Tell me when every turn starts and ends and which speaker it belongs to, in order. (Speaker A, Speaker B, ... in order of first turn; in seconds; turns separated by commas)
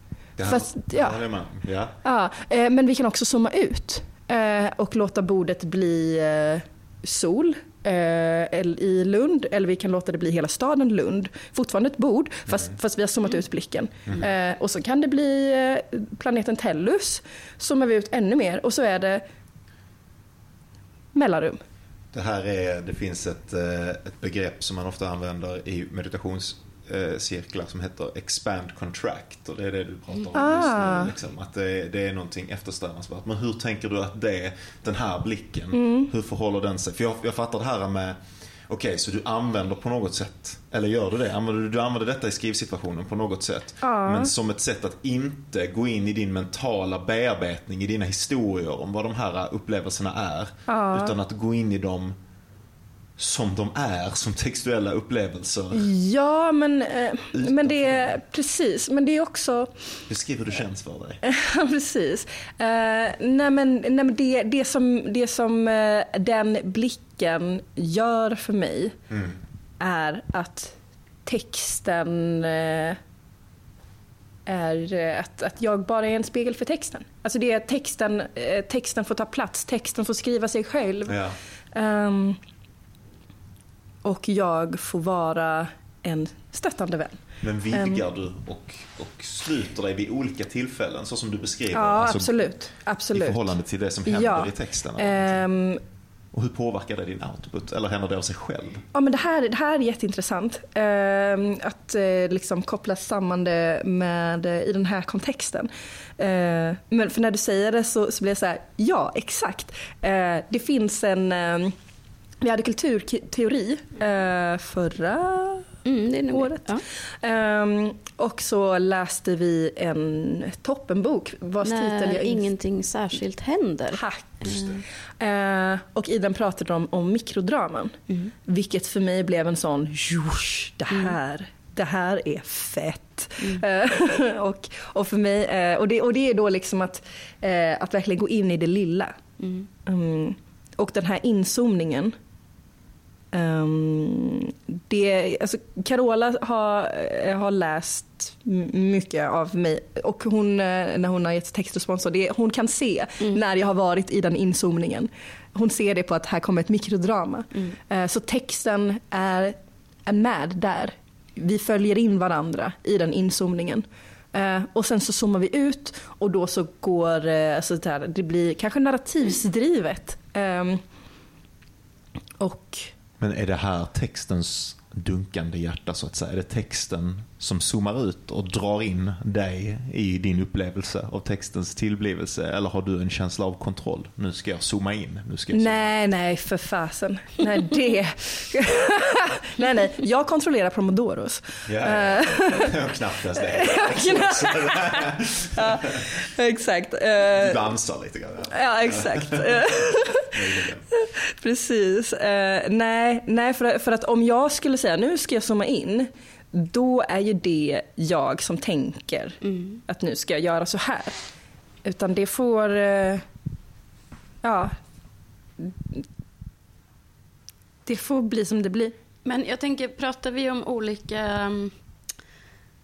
Speaker A: 0.4-2.0, Speaker B: 0.4-1.2, Speaker B: 2.0-19.2, Speaker B: 21.1-21.6, Speaker A: 22.1-52.2, Speaker B: 30.3-31.1, Speaker B: 35.7-36.1, Speaker B: 43.8-44.3, Speaker B: 50.7-51.1, Speaker A: 53.2-55.9, Speaker B: 55.7-59.8, Speaker A: 57.3-58.2, Speaker A: 60.1-61.2, Speaker B: 61.2-69.0, Speaker A: 69.1-69.4, Speaker B: 69.8-73.0, Speaker B: 74.5-81.2, Speaker A: 81.1-81.4, Speaker B: 81.7-82.4, Speaker B: 84.0-88.0, Speaker A: 87.4-92.4, Speaker B: 91.7-95.8, Speaker A: 93.1-95.4, Speaker A: 96.3-98.9, Speaker B: 98.9-111.8, Speaker B: 112.4-115.7, Speaker C: 115.9-116.8, Speaker B: 116.3-122.5, Speaker C: 121.6-124.8, Speaker B: 123.9-124.7, Speaker A: 124.5-124.8, Speaker B: 125.2-139.2, Speaker C: 139.4-139.7, Speaker B: 139.8-142.1, Speaker B: 143.3-170.8, Speaker B: 172.4-172.9, Speaker A: 173.2-185.9, Speaker B: 185.5-192.8, Speaker A: 191.7-196.1, Speaker B: 193.4-197.6, Speaker A: 197.3-199.7, Speaker B: 198.5-200.3, Speaker A: 200.3-200.9, Speaker B: 200.9-211.2, Speaker C: 209.4-209.8, Speaker B: 211.8-213.2, Speaker B: 214.4-214.8, Speaker B: 215.6-216.0, Speaker B: 217.9-218.9, Speaker C: 219.2-221.8